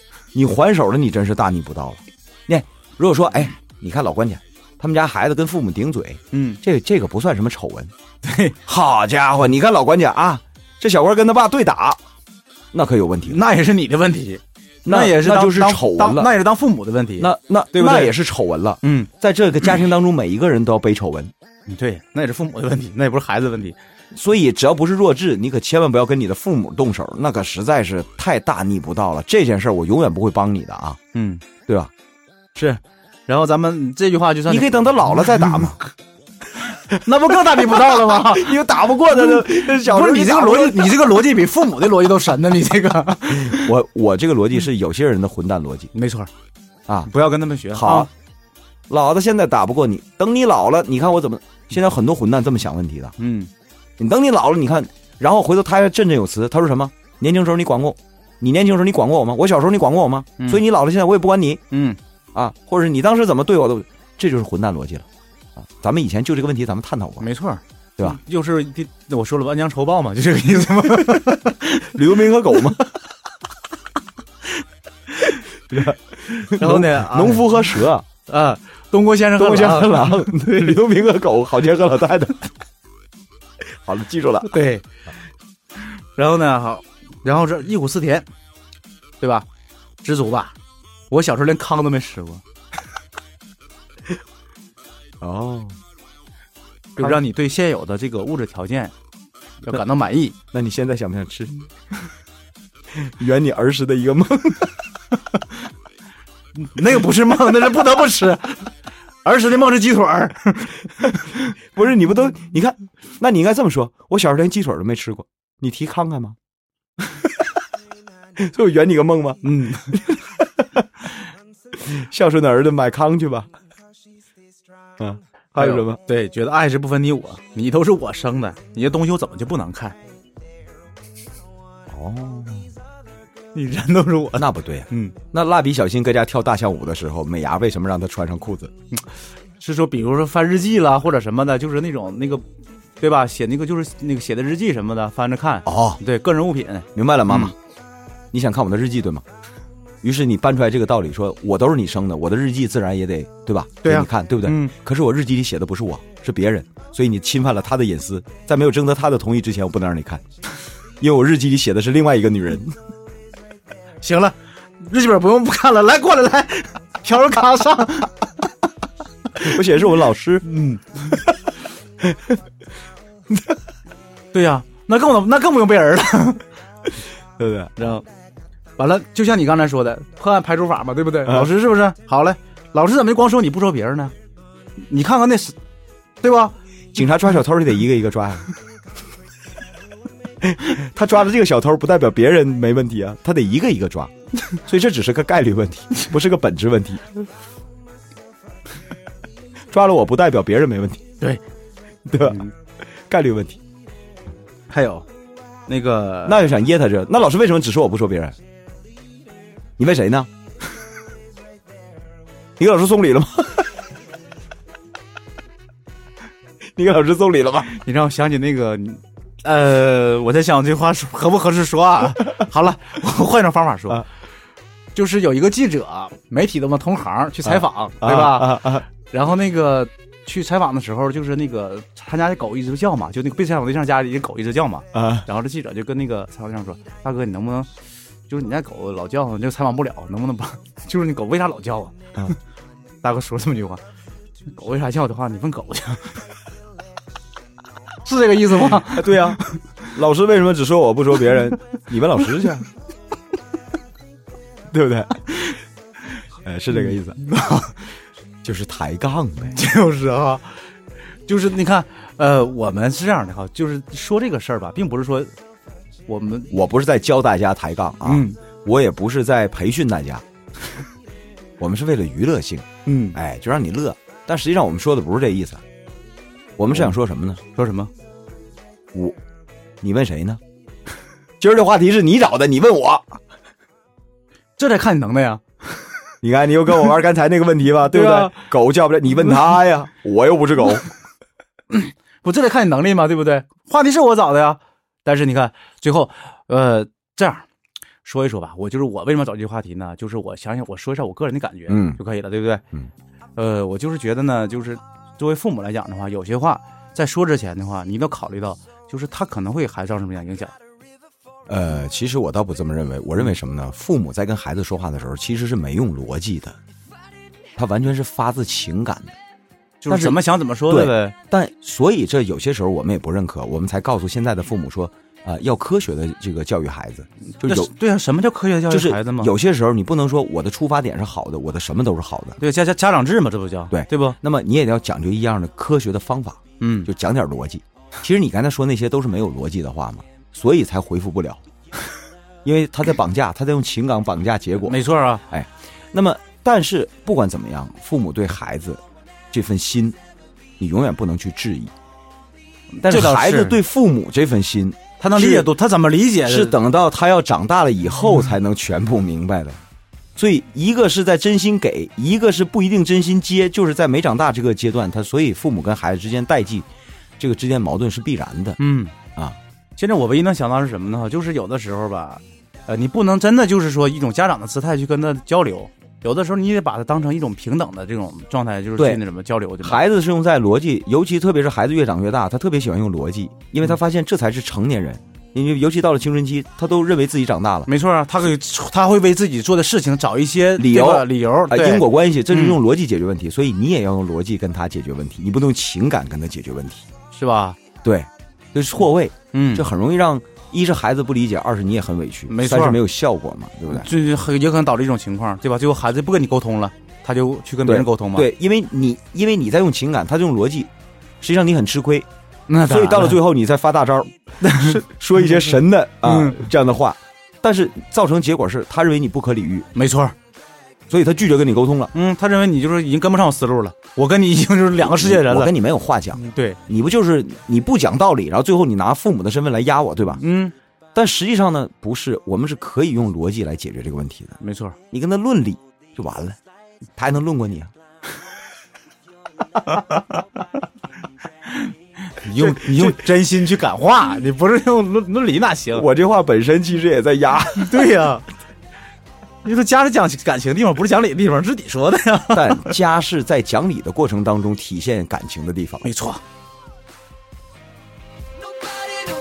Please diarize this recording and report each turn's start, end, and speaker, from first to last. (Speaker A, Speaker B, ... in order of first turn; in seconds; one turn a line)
Speaker A: 0.3-7.9
Speaker B: 6.3-6.6
Speaker B: 8.2-8.6
Speaker A: 8.7-12.0
Speaker A: 12.7-13.4
Speaker B: 13.2-18.1
Speaker A: 14.8-16.3
Speaker A: 17.2-21.3
Speaker B: 18.8-19.1
Speaker B: 21.7-23.8
Speaker A: 24.1-31.0
Speaker B: 31.1-31.4
Speaker A: 31.6-31.9
Speaker B: 32.5-35.7
Speaker A: 34.5-35.8
Speaker B: 36.9-43.7
Speaker A: 37.5-41.1
Speaker A: 43.3-45.9
Speaker B: 45.9-46.3
Speaker B: 47.1-48.1
Speaker A: 47.7-48.1
Speaker A: 48.9-53.1
Speaker B: 53.2-53.5
Speaker A: 54.0-61.6
Speaker B: 61.7-62.0
Speaker A: 62.3-67.2
Speaker B: 67.2-71.9
Speaker A: 71.8-72.8
Speaker B: 75.1-75.4
Speaker A: 75.7-78.0
Speaker B: 76.3-77.7
Speaker B: 78.3-80.8
Speaker A: 79.4-82.5
Speaker A: 83.8-84.6
Speaker B: 84.4-84.8
Speaker B: 86.1-88.2
Speaker B: 89.2-89.5
Speaker B: 90.0-90.5
Speaker B: 91.1-92.4
Speaker A: 95.2-95.8
Speaker B: 97.0-98.9
Speaker B: 99.6-100.4
Speaker A: 100.5-101.5
Speaker A: 102.9-104.8
Speaker B: 106.6-108.7
Speaker B: 109.2-111.4
Speaker A: 111.7-116.4
Speaker A: 118.4-120.8
Speaker B: 119.4-120.0
Speaker A: 121.7-123.5
Speaker A: 125.0-126.0
Speaker B: 125.6-130.0
Speaker A: 131.9-132.7
Speaker B: 133.5-135.2
Speaker A: 134.4-138.7
Speaker B: 139.6-142.4
Speaker B: 143.0-147.5
Speaker A: 145.7-146.0
Speaker A: 146.9-147.5
Speaker A: 148.3-149.2
Speaker A: 150.0-160.2
Speaker B: 153.8-154.7
Speaker A: 161.0-162.8
Speaker B: 164.0-168.1
Speaker A: 169.4-170.5
Speaker B: 170.4-171.2
Speaker A: 172.0-172.4
Speaker B: 174.3-176.4
Speaker A: 177.4-177.7
Speaker B: 177.8-178.1
Speaker B: 178.8-184.1
Speaker A: 181.2-181.5
Speaker B: 184.8-185.6
Speaker B: 186.2-186.6
Speaker A: 186.9-188.5
Speaker A: 190.4-197.2
Speaker A: 199.7-201.0
Speaker A: 202.1-202.5
Speaker B: 202.2-202.5
Speaker A: 203.1-203.6
Speaker B: 204.7-205.0
Speaker B: 205.7-206.4
Speaker A: 206.2-208.4
Speaker A: 209.8-210.3
Speaker A: 212.6-213.7
Speaker A: 216.8-217.7
Speaker B: 217.7-224.1
Speaker B: 224.9-237.7
Speaker A: 227.5-228.8
Speaker A: 234.9-235.2
Speaker B: 238.3-242.3
Speaker B: 243.0-243.8
Speaker B: 244.5-246.2
Speaker B: 248.0-249.5
Speaker A: 248.8-252.6
Speaker A: 254.7-255.2
Speaker A: 256.4-257.2
Speaker B: 257.2-257.8
Speaker A: 258.4-259.6
Speaker B: 259.5-260.6
Speaker B: 261.3-265.3
Speaker B: 266.1-266.5
Speaker A: 266.5-270.2
Speaker B: 268.1-268.4
Speaker A: 271.6-275.6
Speaker B: 272.9-273.2
Speaker A: 276.6-277.4
Speaker B: 277.5-277.9
Speaker A: 279.8-280.4
Speaker A: 281.4-283.2
Speaker B: 284.6-285.4
Speaker A: 286.2-290.9
Speaker B: 287.9-288.4
Speaker B: 291.7-297.4
Speaker B: 298.0-302.6
Speaker A: 301.7-302.0
Speaker B: 303.4-310.5
Speaker A: 311.5-316.6
Speaker A: 317.6-319.1
Speaker B: 319.8-321.1
Speaker A: 319.9-327.7
Speaker B: 327.4-329.3
Speaker A: 328.7-332.4
Speaker B: 332.4-334.1
Speaker A: 333.7-341.4
Speaker B: 336.6-336.9
Speaker A: 342.4-350.0
Speaker B: 344.7-345.2
Speaker A: 350.6-351.7
Speaker B: 352.8-353.6
Speaker A: 352.8-355.5
Speaker B: 355.0-356.5
Speaker A: 356.2-359.6
Speaker A: 360.1-366.7
Speaker A: 367.2-368.6
Speaker B: 368.6-368.9
Speaker B: 369.8-379.8
Speaker A: 379.6-387.7
Speaker B: 387.7-392.6
Speaker A: 390.6-396.9
Speaker B: 397.1-397.6
Speaker A: 397.8-403.9
Speaker B: 399.3-399.7
Speaker B: 402.3-402.8
Speaker B: 403.7-408.3
Speaker A: 407.6-412.1
Speaker B: 412.5-413.2
Speaker A: 412.6-419.7
Speaker B: 414.4-414.8
Speaker B: 416.0-416.4
Speaker B: 419.7-420.1
Speaker A: 420.9-421.9
Speaker B: 421.9-425.5
Speaker A: 424.8-430.2
Speaker B: 426.1-426.6
Speaker B: 430.2-430.5
Speaker A: 430.9-434.4
Speaker B: 434.4-434.8
Speaker A: 434.9-436.4
Speaker A: 436.9-437.7
Speaker B: 439.7-440.0
Speaker B: 441.5-445.8
Speaker A: 442.4-442.9
Speaker A: 445.7-448.0
Speaker B: 447.6-448.2
Speaker B: 449.4-452.7
Speaker A: 452.3-455.9
Speaker B: 455.8-456.2